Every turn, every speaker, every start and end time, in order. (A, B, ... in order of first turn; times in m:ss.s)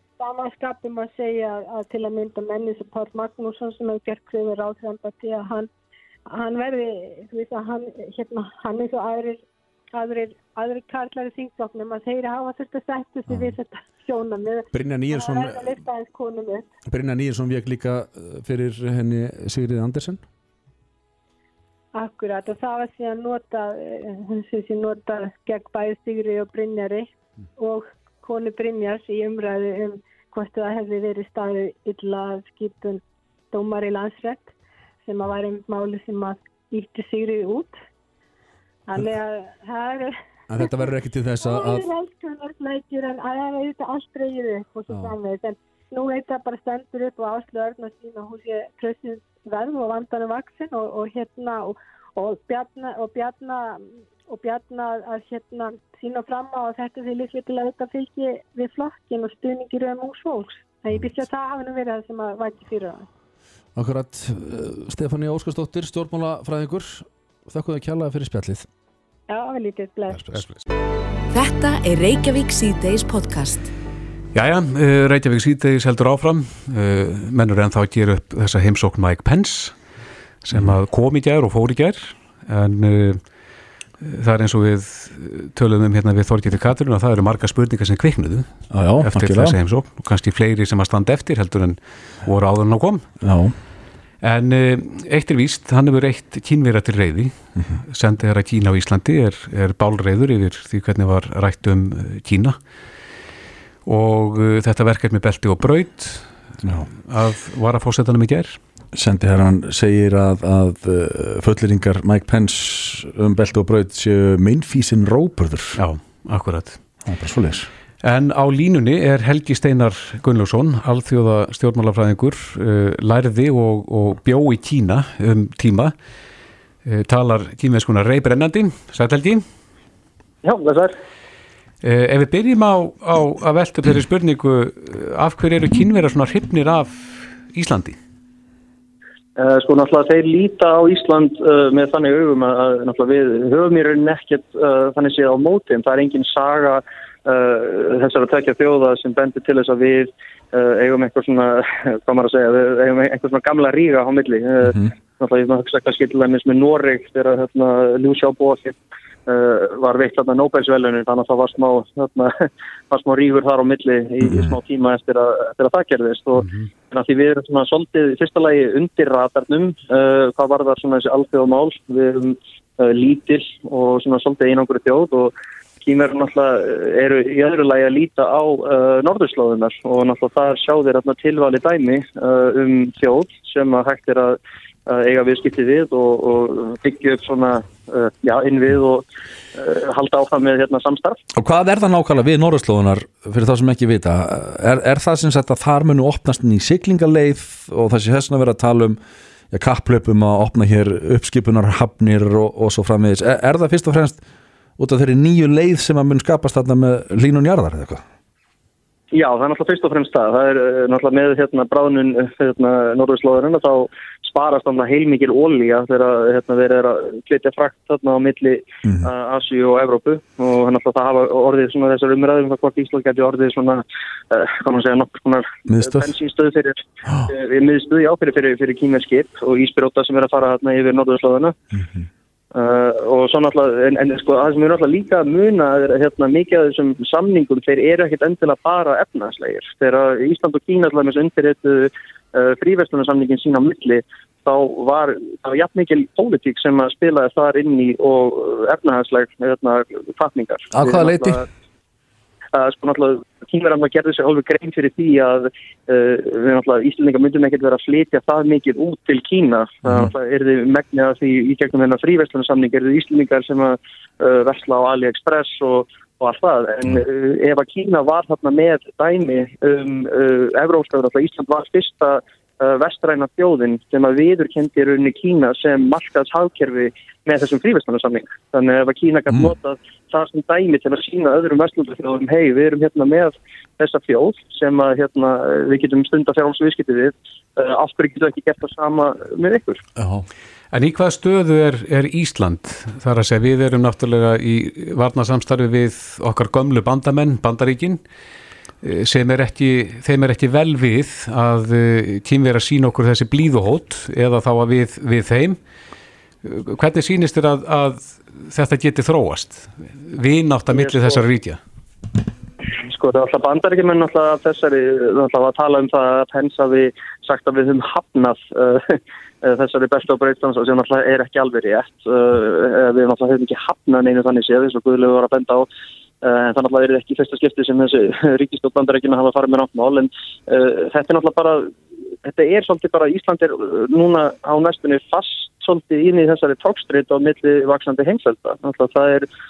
0:00.2-0:05.7 A
0:06.3-0:09.4 A
0:09.9-0:16.7 A
0:13.3-0:13.5 B
0:14.7-0:15.7 B
0:16.9-0:20.2 B
0:21.9-0:37.7 A
0:38.9-1:03.1 A
0:40.5-0:41.8 B
1:03.7-1:08.7 B
1:09.3-1:10.2 A
1:10.1-1:10.4 B
1:10.3-1:10.6 C
1:11.3-1:13.7 D
1:14.3-1:19.8 C
1:20.4-1:23.2 C
1:24.0-1:28.5 C
1:28.7-1:29.6 B
1:29.0-1:33.0 C
1:33.2-1:33.5 B
1:34.2-1:42.6 C
1:43.8-1:46.3 C
1:46.9-1:48.6 C
1:48.9-1:55.8 B
1:55.8-1:56.8 C
1:57.0-1:57.7 B
1:58.0-2:05.9 C
2:06.8-2:09.4 C
2:10.4-2:11.0 E
2:11.8-2:18.0 C
2:19.4-3:11.2 E
2:34.6-2:34.9 B
2:44.2-2:44.5 B
2:46.3-2:46.7 C
3:11.3-3:19.0 B
3:19.5-3:24.2 B
3:24.8-3:28.0 B
3:29.1-3:51.5 E
3:45.7-3:46.1 B
3:51.8-3:52.0 B
3:52.5-4:11.5 E
4:10.7-4:11.4 B
4:12.5-4:49.8 E
4:50.0-4:50.2 B
4:50.7-4:58.0 C
4:58.8-5:05.6 C
5:06.4-5:11.6 C
5:10.7-5:11.2 E
5:12.8-5:25.7 E
5:26.2-5:31.7 E
5:32.2-5:39.2 E